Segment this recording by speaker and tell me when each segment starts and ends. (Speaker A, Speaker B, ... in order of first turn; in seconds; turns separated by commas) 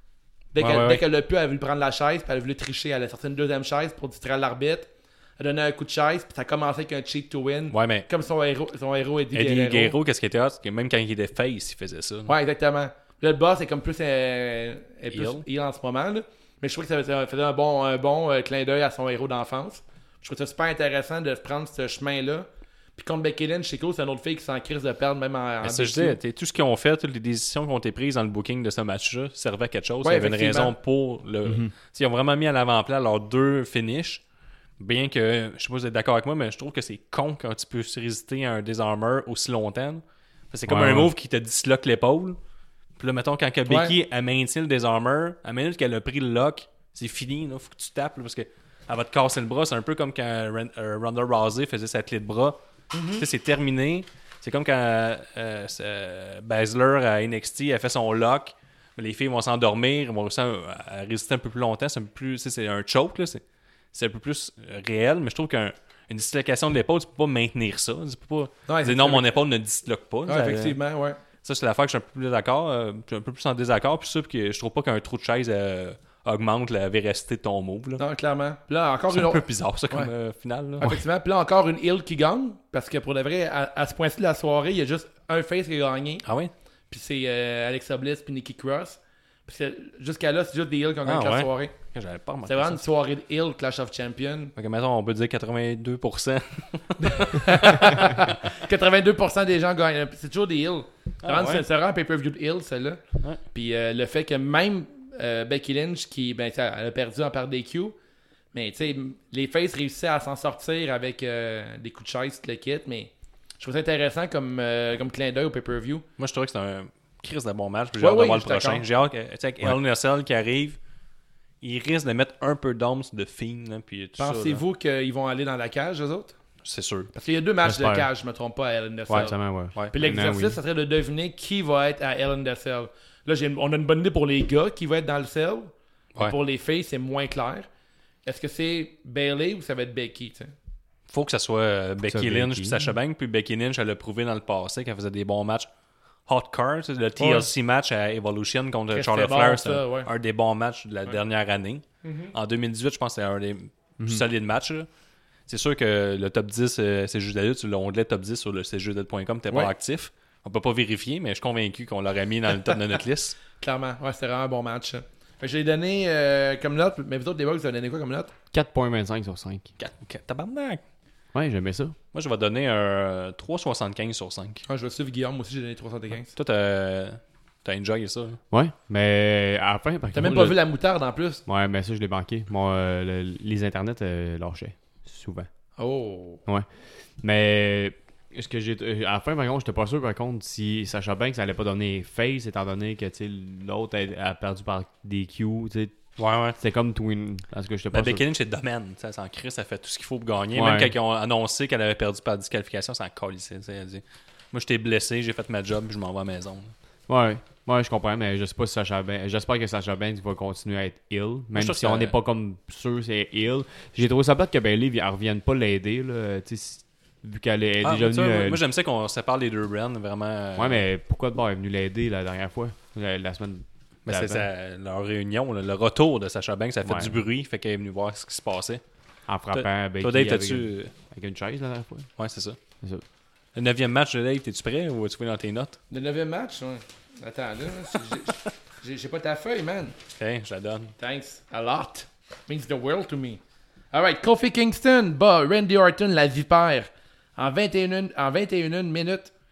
Speaker A: 0.5-9.9, Speaker B: 0.6-1.0, Speaker B: 7.7-8.1, Speaker B: 9.3-12.3, Speaker A: 12.3-26.2, Speaker B: 15.1-15.4, Speaker B: 25.6-34.2, Speaker A: 30.0-30.7, Speaker C: 31.4-31.7, Speaker B: 34.8-42.4, Speaker C: 40.7-41.1, Speaker B: 43.0-52.6, Speaker A: 43.7-43.9, Speaker A: 52.9-53.2, Speaker B: 53.1-63.4, Speaker B: 63.9-70.8, Speaker A: 68.7-69.3, Speaker A: 70.2-71.2, Speaker B: 71.4-78.0, Speaker A: 78.0-80.1, Speaker B: 79.1-81.0, Speaker A: 80.8-86.2, Speaker B: 86.2-86.5, Speaker A: 86.9-91.7, Speaker B: 91.0-92.8, Speaker A: 92.5-94.5, Speaker B: 94.5-98.1, Speaker A: 97.0-107.9, Speaker B: 101.2-101.6, Speaker A: 108.5-116.0, Speaker B: 116.2-120.8, Speaker A: 118.0-118.8, Speaker B: 121.6-124.6, Speaker A: 124.2-126.3, Speaker B: 126.6-127.1, Speaker A: 127.1-129.4, Speaker C: 127.6-128.1, Speaker B: 129.1-130.0, Speaker C: 129.1-130.6, Speaker A: 129.9-137.7, Speaker A: 138.2-140.5, Speaker B: 141.1-145.7, Speaker C: 142.0-142.9, Speaker B: 146.2-154.9, Speaker A: 147.2-147.5, Speaker A: 148.9-150.1, Speaker A: 152.0-152.3, Speaker B: 155.5-163.4, Speaker A: 163.6-168.3, Speaker C: 168.5-169.7, Speaker B: 169.8-170.8, Speaker C: 171.3-171.9, Speaker B: 172.1-174.6, Speaker A: 174.7-176.3, Speaker B: 176.3-178.4, Speaker C: 178.5-180.6, Speaker A: 180.1-181.4, Speaker C: 181.4-185.5, Speaker A: 185.8-186.4, Speaker C: 186.4-198.2, Speaker B: 196.2-196.6, Speaker B: 197.9-206.7, Speaker C: 200.5-200.9, Speaker C: 207.1-218.6, Speaker B: 211.5-212.2, Speaker B: 217.8-220.8, Speaker C: 220.6-224.4, Speaker B: 224.1-228.8, Speaker C: 226.8-227.2, Speaker C: 229.3-232.1, Speaker B: 229.5-230.9, Speaker B: 232.2-232.6, Speaker B: 233.5-235.8, Speaker A: 235.9-239.9, Speaker B: 240.2-240.9, Speaker A: 241.0-243.4, Speaker A: 243.9-249.3